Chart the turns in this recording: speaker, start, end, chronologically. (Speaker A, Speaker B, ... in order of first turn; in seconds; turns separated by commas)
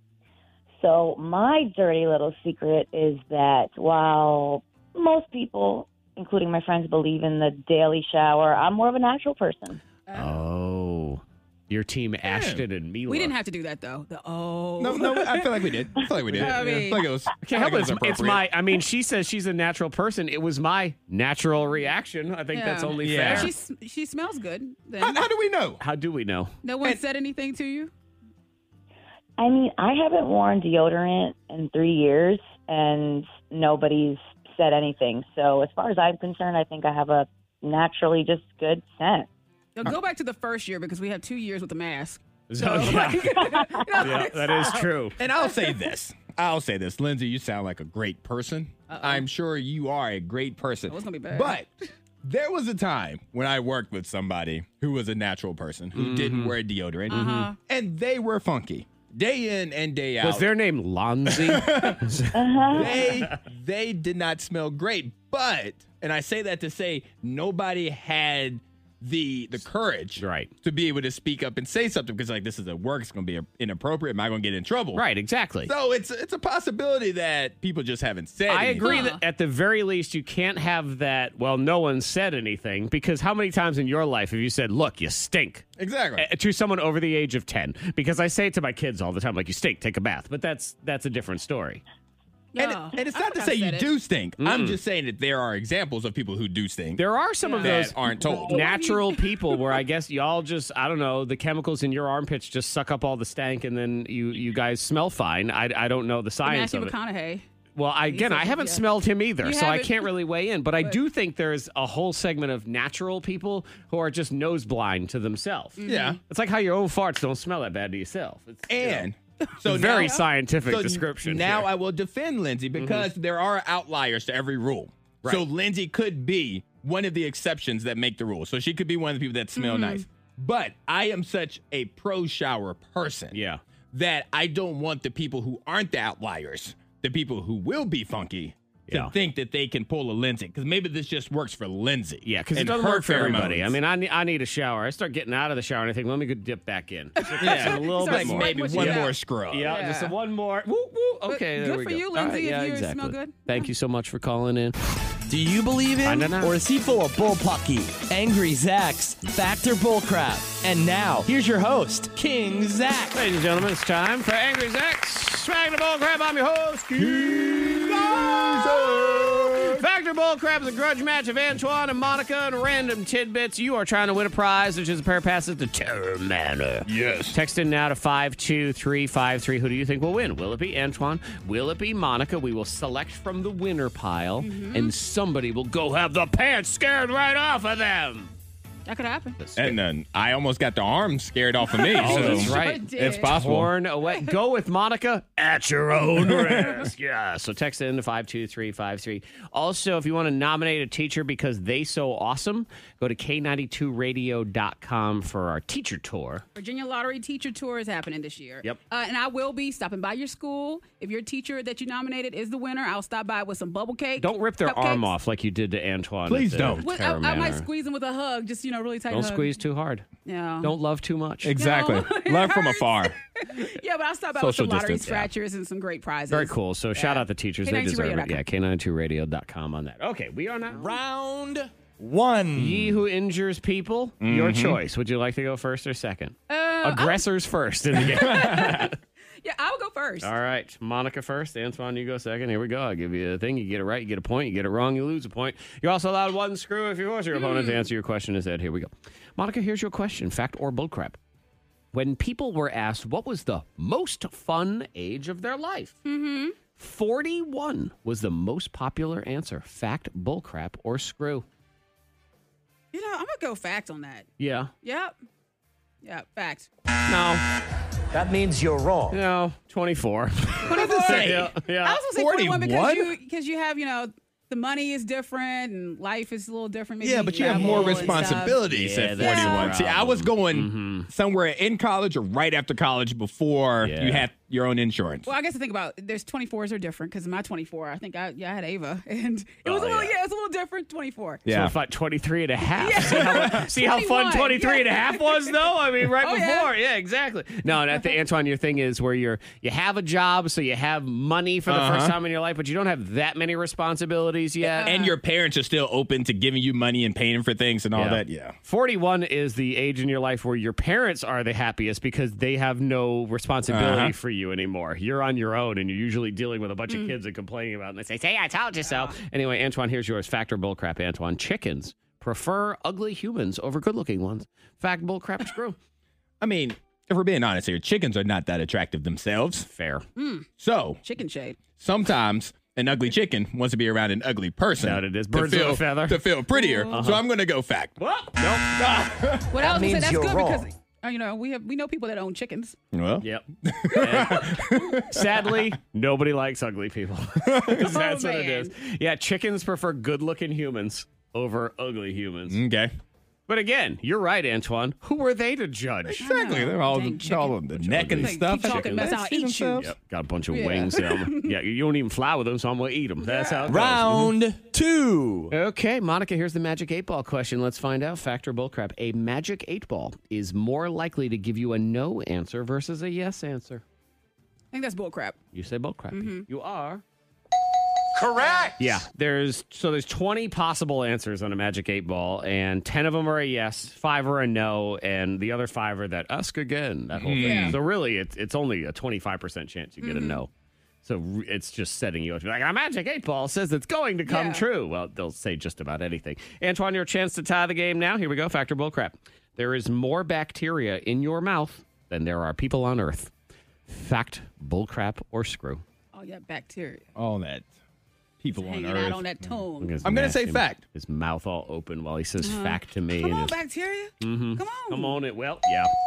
Speaker A: 0.8-9.8, Speaker B: 10.1-10.4, Speaker C: 10.1-13.3, Speaker D: 12.3-12.6, Speaker B: 13.1-15.7, Speaker D: 14.8-18.5, Speaker C: 16.3-16.7, Speaker B: 16.4-17.1, Speaker C: 17.4-23.5, Speaker B: 22.5-25.2, Speaker D: 23.0-23.5, Speaker D: 25.0-25.8, Speaker C: 25.8-26.5, Speaker B: 26.6-27.9, Speaker A: 29.4-39.3, Speaker B: 39.8-44.9, Speaker C: 42.5-45.2, Speaker D: 45.2-60.5, Speaker B: 48.9-49.2, Speaker B: 50.9-51.5, Speaker C: 56.0-56.6, Speaker C: 57.1-57.5, Speaker B: 57.1-57.6, Speaker C: 60.2-63.4, Speaker D: 61.3-75.0, Speaker A: 62.3-63.0, Speaker C: 70.2-70.5, Speaker C: 74.9-75.7, Speaker D: 75.6-79.1, Speaker C: 78.5-85.7, Speaker B: 78.8-79.2, Speaker D: 85.8-86.3, Speaker C: 86.2-91.8, Speaker B: 92.5-93.9, Speaker D: 92.6-97.0, Speaker C: 94.4-94.8, Speaker C: 97.0-106.9, Speaker B: 97.4-99.6, Speaker D: 97.6-98.7, Speaker B: 106.4-107.5, Speaker C: 107.8-119.1, Speaker B: 108.1-110.1, Speaker B: 115.8-116.2, Speaker D: 115.8-116.2, Speaker D: 118.7-133.4, Speaker C: 119.6-121.7, Speaker B: 119.8-120.2, Speaker C: 122.8-123.1, Speaker B: 129.6-130.1, Speaker C: 133.3-133.6, Speaker D: 133.9-143.8, Speaker C: 138.9-139.1, Speaker C: 142.2-154.8, Speaker B: 147.2-150.2, Speaker D: 147.4-149.7, Speaker B: 151.3-153.7, Speaker E: 155.3-163.2, Speaker C: 156.0-156.6, Speaker C: 163.1-188.3, Speaker D: 166.9-169.8, Speaker D: 176.8-177.4, Speaker B: 184.4-184.9, Speaker B: 188.9-189.4, Speaker C: 189.4-189.8, Speaker D: 189.6-193.7, Speaker B: 191.7-193.4, Speaker C: 192.0-206.4, Speaker B: 194.1-194.4, Speaker D: 196.2-196.8, Speaker B: 206.6-215.1, Speaker C: 214.2-217.7, Speaker D: 216.3-216.8, Speaker B: 216.8-219.6, Speaker C: 219.1-220.1, Speaker B: 220.2-220.7, Speaker C: 220.6-221.6, Speaker D: 221.4-223.2, Speaker B: 221.6-228.4, Speaker D: 224.4-225.3, Speaker C: 226.3-230.9, Speaker E: 230.8-232.8, Speaker D: 230.8-231.2, Speaker D: 232.0-232.9, Speaker C: 232.5-238.9, Speaker D: 234.2-234.8, Speaker B: 236.5-237.2, Speaker B: 238.0-240.3, Speaker D: 238.1-238.9, Speaker C: 240.2-251.2, Speaker B: 247.3-247.9, Speaker C: 251.9-256.0, Speaker B: 256.1-256.6, Speaker C: 256.8-261.4, Speaker B: 262.9-264.3, Speaker C: 264.4-264.7, Speaker B: 264.8-265.2, Speaker B: 266.0-266.7, Speaker C: 267.1-267.4, Speaker E: 268.1-269.2, Speaker C: 269.1-272.0, Speaker B: 270.7-278.6, Speaker D: 270.7-271.6, Speaker D: 272.1-273.1, Speaker D: 277.0-285.3, Speaker C: 277.4-281.1, Speaker B: 279.2-279.7, Speaker C: 283.8-284.3, Speaker B: 285.3-291.4, Speaker C: 289.6-290.1, Speaker D: 291.4-291.7, Speaker C: 291.5-304.9, Speaker B: 292.7-296.7, Speaker D: 293.1-293.4, Speaker B: 297.7-298.1, Speaker D: 301.7-302.2, Speaker B: 304.6-305.2, Speaker D: 304.8-308.6, Speaker C: 307.9-325.8, Speaker D: 313.7-314.1, Speaker B: 316.9-317.1, Speaker B: 318.9-319.1, Speaker D: 326.4-329.7, Speaker C: 329.7-330.1, Speaker B: 330.2-330.5, Speaker D: 330.6-331.0, Speaker B: 331.0-331.6, Speaker D: 331.8-338.0, Speaker C: 334.8-336.2, Speaker B: 336.5-336.9, Speaker C: 336.9-337.2, Speaker C: 338.0-338.8, Speaker D: 338.7-339.6, Speaker B: 339.5-342.8, Speaker E: 339.6-340.7, Speaker D: 342.9-345.8, Speaker C: 343.2-352.6, Speaker B: 344.0-344.8, Speaker D: 347.4-347.8, Speaker B: 347.8-348.7, Speaker D: 352.5-352.9, Speaker C: 353.5-356.3, Speaker D: 356.1-359.9, Speaker B: 356.2-359.9, Speaker C: 357.8-359.2, Speaker C: 359.8-364.3, Speaker B: 360.5-361.6, Speaker D: 363.6-364.6, Speaker E: 363.7-365.5, Speaker C: 365.5-373.8, Speaker B: 374.7-375.4, Speaker C: 375.5-377.0, Speaker B: 376.1-376.4, Speaker E: 378.2-378.6, Speaker C: 378.8-390.5, Speaker D: 387.1-387.8, Speaker B: 387.4-387.8, Speaker B: 390.0-390.4, Speaker C: 391.0-403.3, Speaker B: 394.3-394.6, Speaker C: 403.9-405.8, Speaker B: 406.1-407.1, Speaker D: 407.2-407.7, Speaker D: 408.4-410.8, Speaker B: 408.5-410.0, Speaker C: 409.8-413.6, Speaker B: 412.4-415.2, Speaker C: 414.2-415.9